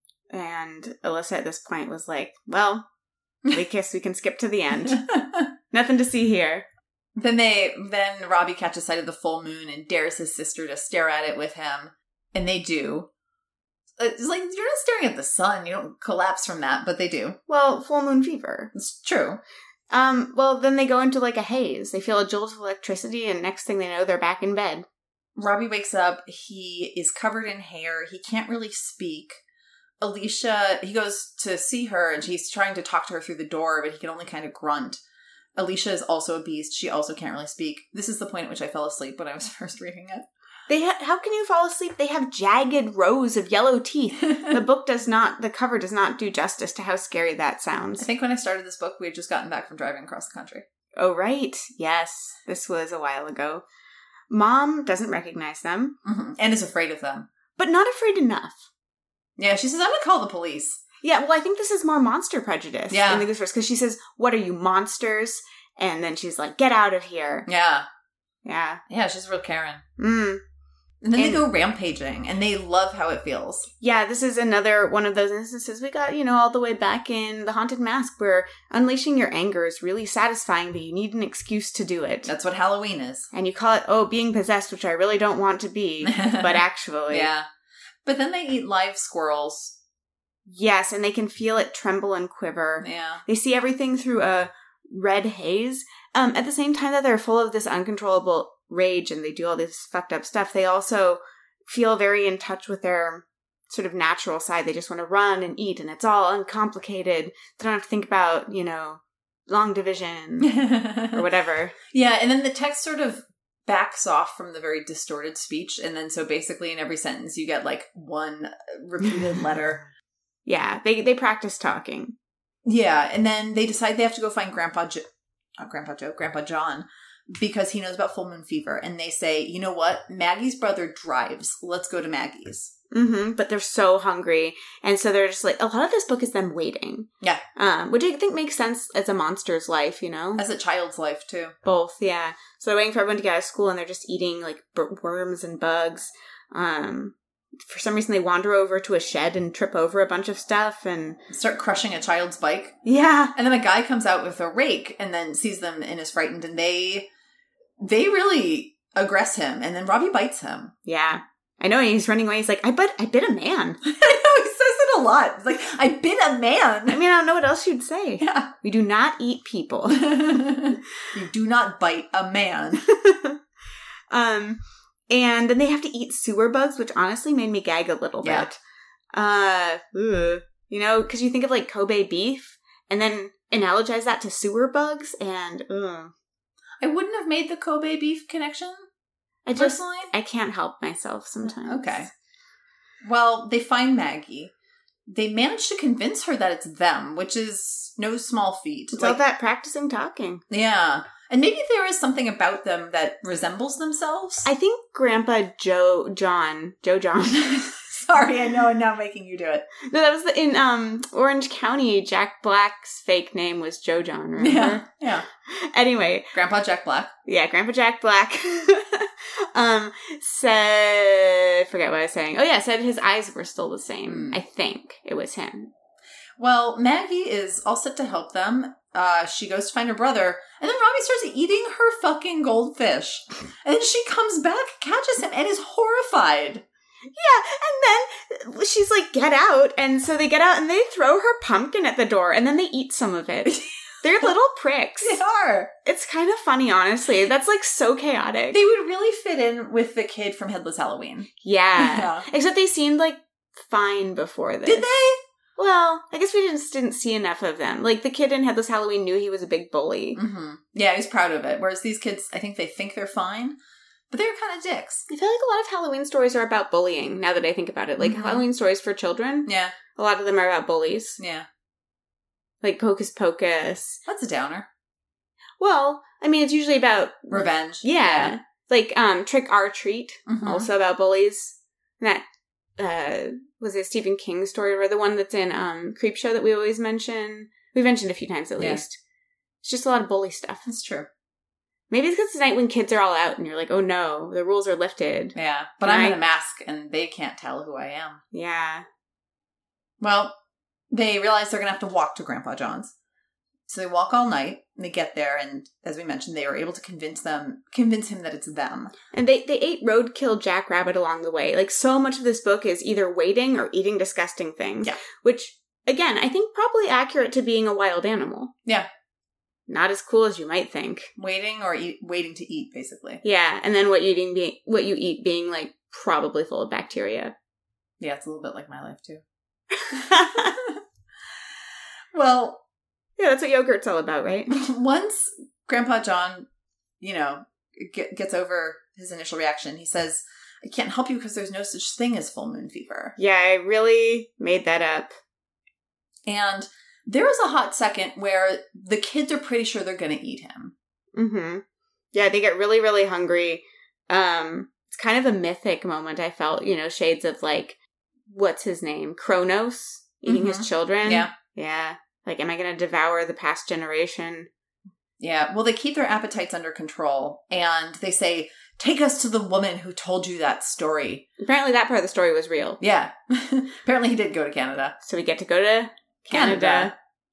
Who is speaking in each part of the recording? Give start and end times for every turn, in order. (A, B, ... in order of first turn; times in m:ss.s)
0:00.3-0:02.8 A
0:03.5-0:05.0 A
0:04.9-0:05.5 B
0:05.7-0:06.6 A
0:07.2-0:13.1 B
0:14.0-0:17.4 B
0:17.5-0:18.7 A
0:18.7-0:19.4 B
0:19.9-0:24.8 A
0:25.4-0:29.4 B
0:30.0-0:35.0 B
0:35.6-0:40.2 B
0:40.7-0:48.1 A
0:48.0-0:50.6 B
0:51.0-0:53.6 A
0:54.3-0:56.0 A
0:56.0-0:57.3 B
0:57.6-0:58.6 A
0:59.4-1:00.8 B
1:01.0-1:07.5 A
1:02.9-1:03.2 B
1:07.4-1:07.9 B
1:08.4-1:08.8 A
1:08.9-1:09.8 B
1:10.0-1:10.4 A
1:11.0-1:13.7 B
1:11.1-1:11.4 A
1:13.8-1:22.3 A
1:22.2-1:23.3 B
1:23.3-1:27.3 A
1:26.0-1:27.4 B
1:28.0-1:29.8 B
1:30.5-1:50.5 A
1:32.8-1:33.2 B
1:50.4-1:51.2 B
1:51.1-1:51.7 A
1:51.9-1:59.8 B
2:00.4-2:02.1 A
2:02.6-2:05.0 B
2:05.6-2:12.7 B
2:12.9-2:20.4 A
2:20.4-2:21.5 B
2:21.6-2:31.2 A
2:31.3-2:32.8 B
2:32.8-2:33.3 A
2:33.3-2:37.1 B
2:37.8-2:40.7 B
2:40.8-2:43.8 A
2:43.8-2:47.0 B
2:46.9-2:50.1 A
2:48.2-2:48.5 B
2:49.9-2:52.8 B
2:52.8-2:53.4 A
2:54.1-2:58.6 A
2:58.2-2:58.5 B
2:59.1-3:06.1 A
3:06.8-3:08.8 B
3:09.4-3:12.1 A
3:09.6-3:10.1 B
3:11.6-3:12.1 B
3:13.0-3:14.5 B
3:15.1-3:19.2 B
3:18.9-3:20.4 A
3:20.5-3:24.5 B
3:24.4-3:27.8 A
3:27.3-3:29.6 B
3:29.8-3:36.3 A
3:34.4-3:35.2 B
3:36.3-3:37.1 B
3:37.2-3:45.7 A
3:44.1-3:44.4 B
3:46.4-3:56.6 B
3:57.1-4:05.2 A
4:05.0-4:05.7 B
4:05.8-4:08.6 A
4:08.5-4:12.3 B
4:11.4-4:14.9 A
4:14.6-4:15.2 B
4:15.6-4:20.2 A
4:20.1-4:23.6 B
4:24.1-4:25.1 B
4:25.1-4:31.2 A
4:28.0-4:28.4 B
4:29.4-4:29.7 B
4:31.2-4:31.4 B
4:32.6-4:34.0 A
4:34.0-4:34.7 B
4:35.6-4:42.2 A
4:37.3-4:38.4 B
4:40.3-4:40.7 B
4:42.8-4:49.0 A
4:48.6-4:48.8 B
4:49.6-4:50.6 A
4:50.6-4:51.1 B
4:51.9-4:56.2 A
4:55.3-4:58.2 B
4:58.3-4:58.8 A
5:00.0-5:00.3 B
5:00.9-5:02.9 B
5:03.7-5:08.9 B
5:09.1-5:18.5 A
5:19.7-5:21.1 A
5:21.2-5:23.2 B
5:23.2-5:27.3 A
5:28.0-5:29.2 B
5:29.7-5:30.6 A
5:29.9-5:30.8 B
5:32.1-5:32.6 B
5:33.2-5:34.5 A
5:34.5-5:36.5 B
5:37.0-5:43.2 B
5:43.2-5:45.1 A
5:46.2-5:50.7 B
5:51.1-5:57.8 A
5:58.3-6:04.5 A
6:00.2-6:01.3 B
6:05.2-6:11.2 B
6:11.4-6:12.8 A
6:12.8-6:15.0 B
6:15.0-6:16.9 A
6:16.3-6:16.9 B